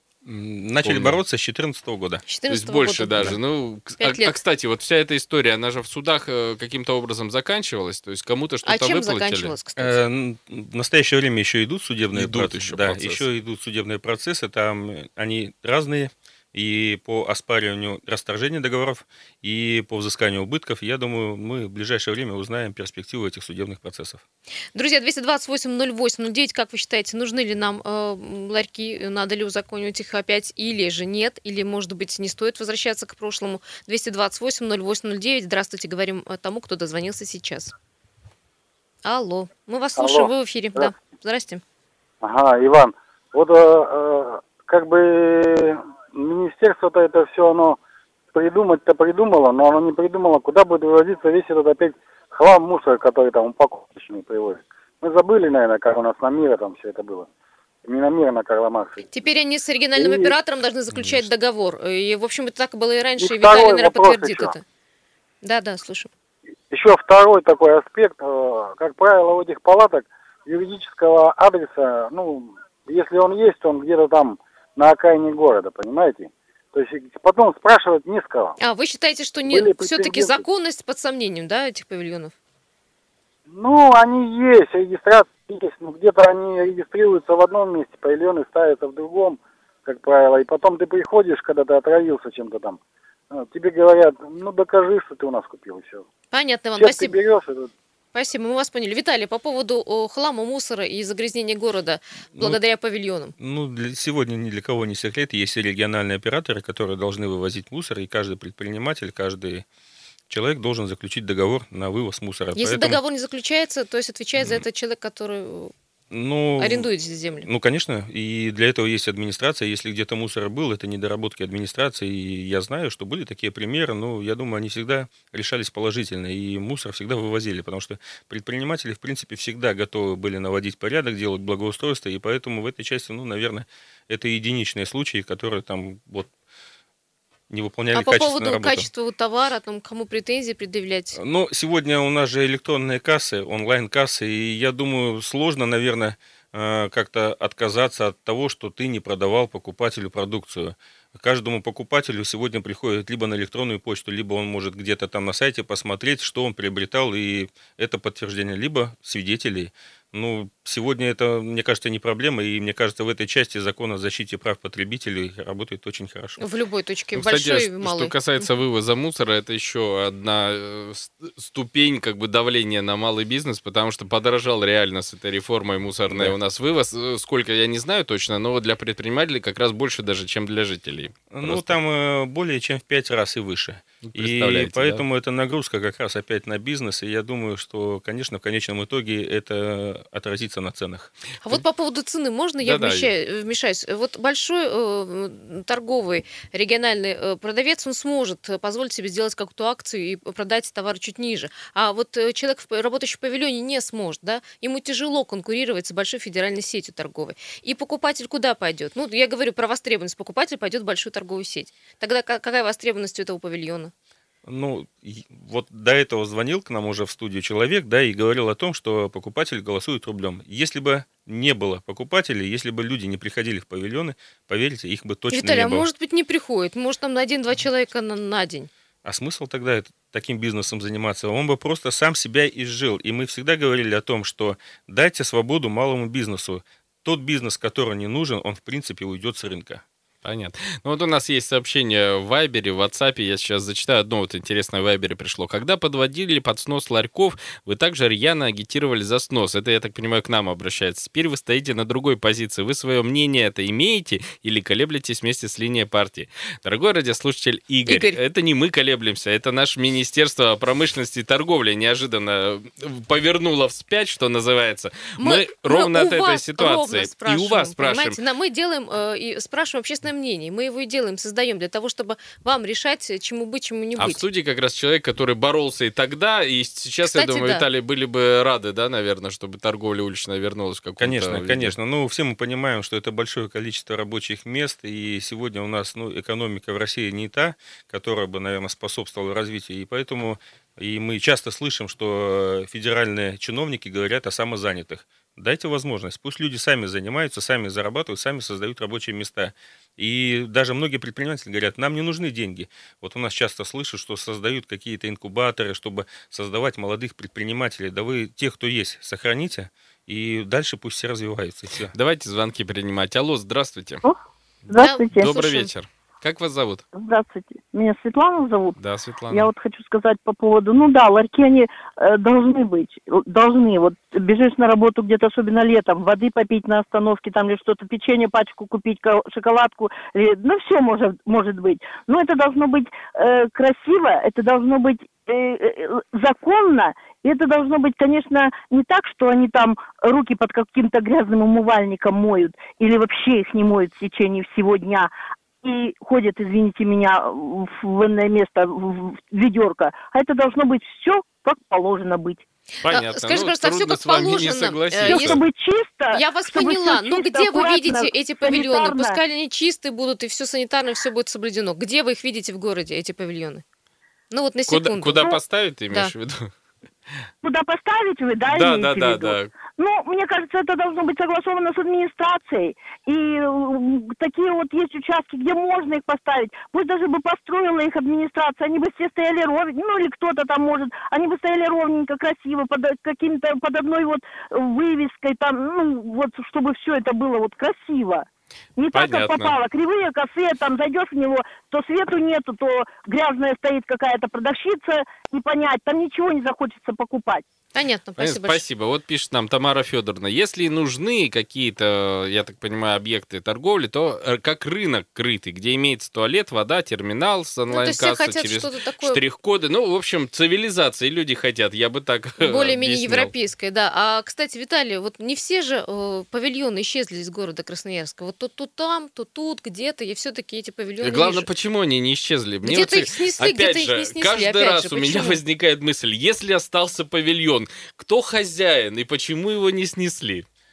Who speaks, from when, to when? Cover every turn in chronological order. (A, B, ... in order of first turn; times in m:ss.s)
0:00.2-0:02.2 A
0:00.8-0:01.2 B
0:02.3-0:03.4 C
0:02.5-0:09.5 B
0:04.0-0:04.3 C
0:08.6-0:10.0 C
0:09.8-0:24.2 A
0:12.1-0:13.3 B
0:24.7-0:37.7 C
0:39.0-0:41.6 C
0:40.0-0:40.9 D
0:42.2-0:47.8 D
0:48.3-0:57.3 D
0:57.8-0:59.1 D
0:59.1-1:04.6 C
1:00.0-1:00.3 D
1:03.2-1:04.5 D
1:05.4-1:06.1 C
1:06.7-1:18.6 D
1:18.6-1:22.3 C
1:19.5-1:20.4 D
1:23.5-1:32.8 D
1:33.3-1:36.0 D
1:36.3-1:37.2 C
1:36.8-1:37.7 D
1:38.2-1:43.3 C
1:43.4-1:49.6 A
1:50.3-1:53.0 A
1:52.6-1:55.7 C
1:56.1-1:56.9 A
1:56.6-1:57.5 C
1:57.4-2:16.3 A
2:17.5-2:18.9 A
2:17.9-2:21.2 C
2:21.1-2:46.4 A
2:46.4-2:48.5 C
2:47.1-3:01.8 B
2:56.1-2:56.4 A
3:01.3-3:11.1 A
3:04.0-3:05.0 B
3:11.4-3:33.9 C
3:12.6-3:13.1 B
3:34.4-3:45.9 A
3:45.3-3:48.7 C
3:49.0-3:59.8 A
4:00.2-4:28.2 B
4:17.9-4:18.2 C
4:25.2-4:34.2 C
4:34.0-4:41.7 B
4:37.0-4:37.7 C
4:41.0-5:11.9 A
5:11.9-5:14.0 B
5:14.7-5:15.7 E
5:14.8-5:15.7 C
5:15.1-5:16.8 B
5:16.9-5:18.8 E
5:18.8-5:19.5 B
5:19.3-5:45.1 E
5:45.6-5:52.4 E
5:52.8-5:55.4 B
5:52.9-5:55.4 C
5:55.0-5:59.2 E
5:56.1-6:03.6 C
6:04.3-6:05.4 C
6:04.7-6:06.5 B
6:07.4-6:28.3 E
6:08.5-6:09.5 B
6:28.8-6:37.4 E
6:28.9-6:29.6 B
6:37.7-6:38.6 C
6:38.2-6:53.3 B
6:47.7-6:49.2 C
6:52.4-7:01.5 C
7:01.0-7:10.5 B
7:02.6-7:05.4 C